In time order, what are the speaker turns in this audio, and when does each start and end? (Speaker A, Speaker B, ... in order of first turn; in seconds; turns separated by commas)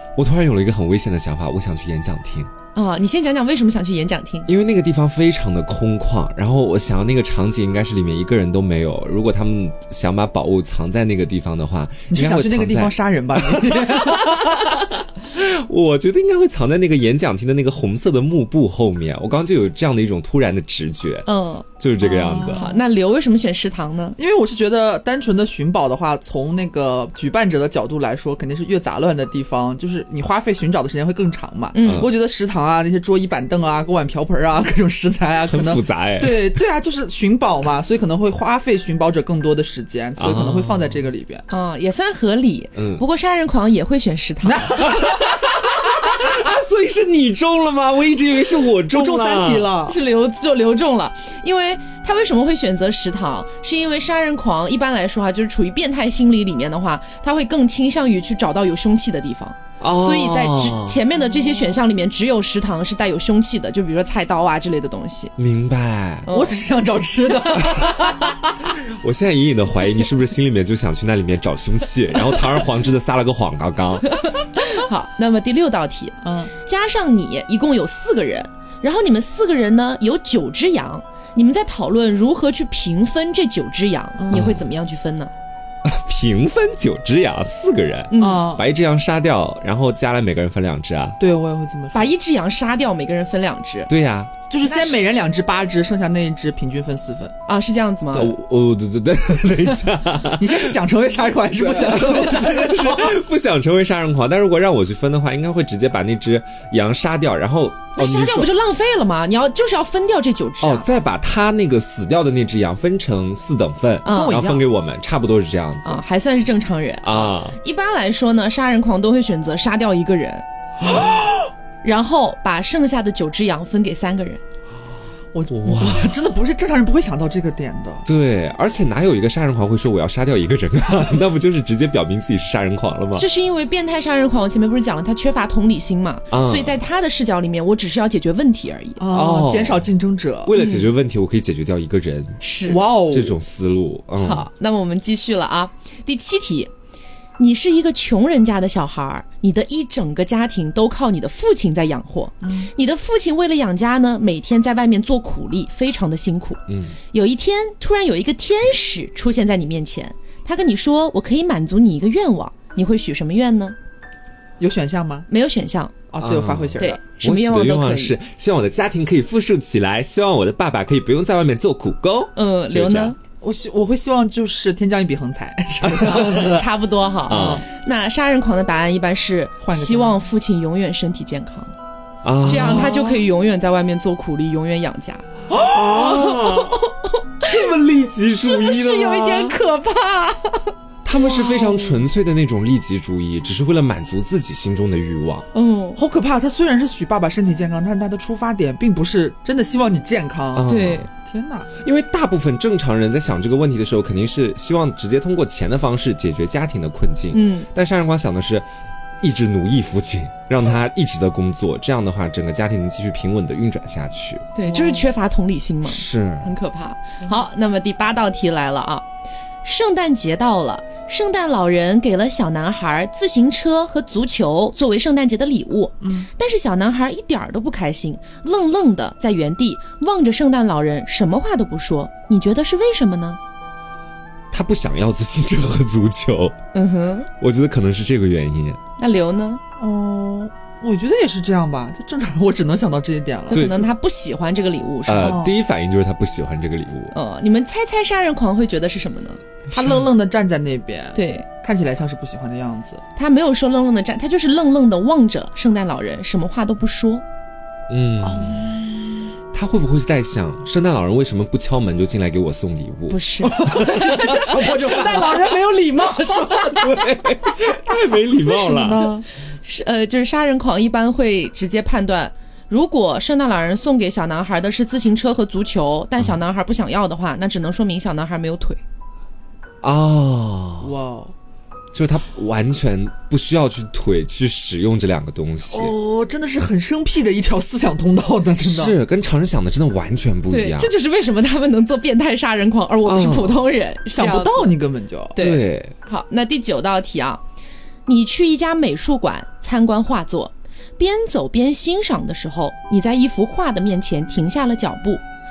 Speaker A: 0.2-2.5, Speaker B: 2.8-4.5, Speaker A: 4.5-21.3, Speaker C: 12.1-14.8, Speaker B: 21.3-21.7, Speaker A: 21.8-22.7, Speaker C: 22.0-22.7, Speaker B: 22.3-24.2, Speaker C: 24.2-41.4, Speaker B: 31.7-32.1, Speaker A: 31.9-32.1, Speaker A: 35.5-36.6, Speaker A: 40.2-41.0, Speaker B: 41.5-45.1, Speaker A: 42.8-43.0, Speaker C: 44.4-45.5, Speaker A: 44.9-49.7, Speaker C: 48.9-50.0, Speaker B: 49.9-65.3, Speaker A: 59.8-61.0, Speaker A: 65.4-66.3, Speaker B: 66.3-66.6, Speaker C: 66.3-68.5, Speaker A: 68.8-74.1, Speaker B: 74.1-85.3, Speaker C: 76.2-76.5, Speaker C: 84.2-84.5, Speaker A: 84.3-84.6, Speaker A: 85.8-91.2, Speaker B: 88.1-88.5, Speaker C: 88.2-88.6, Speaker C: 91.2-92.1, Speaker B: 91.9-93.9, Speaker A: 93.9-94.3, Speaker C: 94.5-97.3, Speaker B: 94.6-95.0, Speaker B: 97.5-98.3, Speaker A: 98.1-100.8, Speaker C: 100.4-103.2, Speaker A: 101.6-108.5, Speaker B: 108.0-110.9, Speaker A: 110.6-116.0, Speaker B: 114.0-114.4, Speaker C: 114.1-114.7, Speaker B: 115.8-120.4, Speaker A: 117.0-117.6, Speaker A: 120.8-121.1, Speaker B: 121.8-124.4, Speaker C: 125.3-128.1, Speaker A: 125.5-126.2, Speaker A: 128.1-133.3, Speaker B: 133.2-139.1, Speaker A: 136.3-136.8, Speaker C: 139.0-140.6, Speaker A: 139.1-139.9, Speaker A: 140.4-142.4, Speaker B: 140.6-140.9, Speaker B: 142.4-142.8, Speaker C: 142.7-143.4, Speaker A: 143.1-144.5, Speaker B: 144.2-146.7, Speaker B: 147.4-163.8, Speaker C: 152.4-152.7, Speaker A: 156.7-157.0, Speaker C: 164.6-165.3, Speaker B: 165.3-166.0, Speaker C: 166.1-167.0, Speaker A: 166.2-173.2, Speaker B: 166.8-168.2, Speaker B: 172.4-173.2, Speaker C: 173.4-176.7, Speaker A: 175.8-176.4, Speaker B: 176.1-181.8, Speaker A: 177.3-177.7, Speaker C: 177.3-177.6, Speaker C: 179.6-180.2, Speaker A: 182.2-182.9, Speaker B: 182.4-185.3, Speaker C: 182.5-183.2, Speaker A: 185.5-186.8, Speaker B: 185.9-186.9, Speaker B: 187.4-187.7, Speaker A: 187.5-189.6, Speaker B: 188.4-191.8, Speaker A: 191.0-195.5, Speaker C: 191.4-191.9, Speaker B: 195.5-196.0, Speaker C: 196.0-201.7, Speaker A: 200.5-201.1, Speaker B: 200.7-201.1, Speaker A: 201.8-208.7, Speaker B: 207.3-207.7, Speaker A: 209.2-214.5, Speaker B: 214.6-219.0, Speaker C: 214.7-215.1, Speaker A: 215.8-216.5, Speaker B: 219.6-233.4, Speaker C: 226.0-226.3, Speaker A: 234.5-236.6, Speaker B: 236.7-237.3, Speaker A: 237.4-238.8, Speaker B: 239.0-239.6, Speaker C: 239.8-243.7, Speaker B: 243.5-245.4, Speaker A: 243.5-243.9, Speaker A: 245.1-247.1, Speaker C: 245.2-245.5, Speaker B: 247.1-249.4, Speaker C: 249.7-253.0, Speaker B: 251.2-251.5, Speaker B: 253.2-257.2, Speaker A: 257.9-258.6, Speaker C: 258.2-259.2, Speaker A: 259.5-264.4, Speaker B: 263.1-267.1, Speaker C: 263.4-265.7, Speaker A: 266.6-269.0, Speaker C: 268.5-269.2, Speaker B: 268.5-269.1, Speaker B: 269.6-278.8, Speaker A: 279.8-280.9, Speaker C: 280.8-281.3, Speaker A: 281.9-285.9, Speaker C: 285.7-289.0, Speaker A: 288.6-290.9, Speaker B: 290.5-294.7, Speaker A: 293.1-293.6, Speaker C: 294.1-295.4, Speaker B: 295.4-297.4, Speaker A: 295.4-295.9, Speaker B: 298.1-305.2